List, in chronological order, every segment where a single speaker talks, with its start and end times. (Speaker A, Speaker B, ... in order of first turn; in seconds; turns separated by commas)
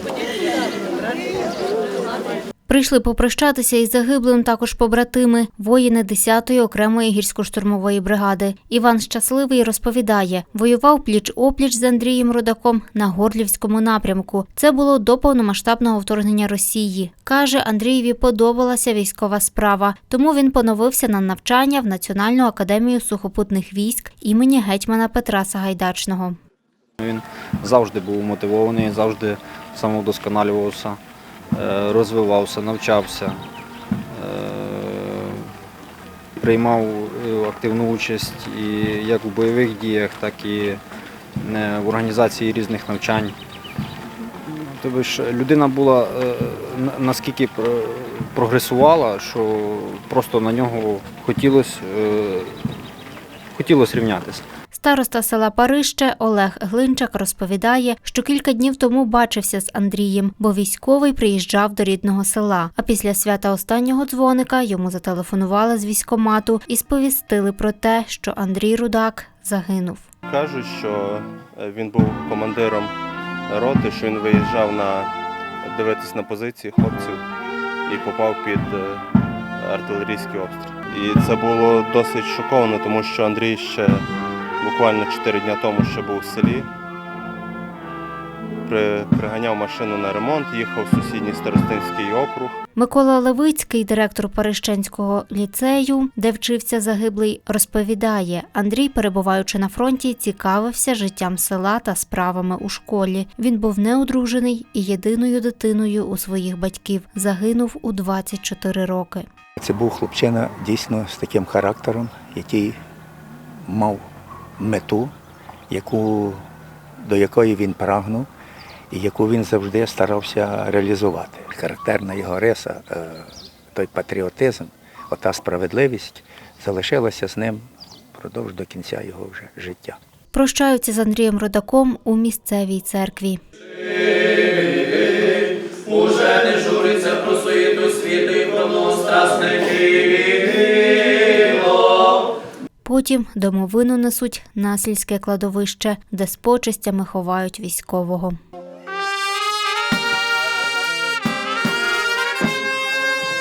Speaker A: 2.7-26.4, Speaker B: 27.0-31.0, Speaker B: 31.5-33.4, Speaker B: 34.1-35.5, Speaker B: 36.4-40.8, Speaker B: 41.4-43.4, Speaker B: 44.4-52.8, Speaker B: 53.5-54.5, Speaker A: 54.7-70.1, Speaker C: 70.3-73.0, Speaker C: 73.5-75.1, Speaker C: 75.6-77.2, Speaker C: 77.9-79.1, Speaker C: 79.6-84.1, Speaker C: 84.6-86.7, Speaker C: 88.7-92.6, Speaker A: 92.8-109.2, Speaker D: 109.6-112.8, Speaker D: 113.7-114.1, Speaker D: 114.6-115.1, Speaker D: 115.7-116.4, Speaker D: 117.0-118.3, Speaker D: 118.9-130.0, Speaker A: 130.3-133.4, Speaker A: 142.8-148.4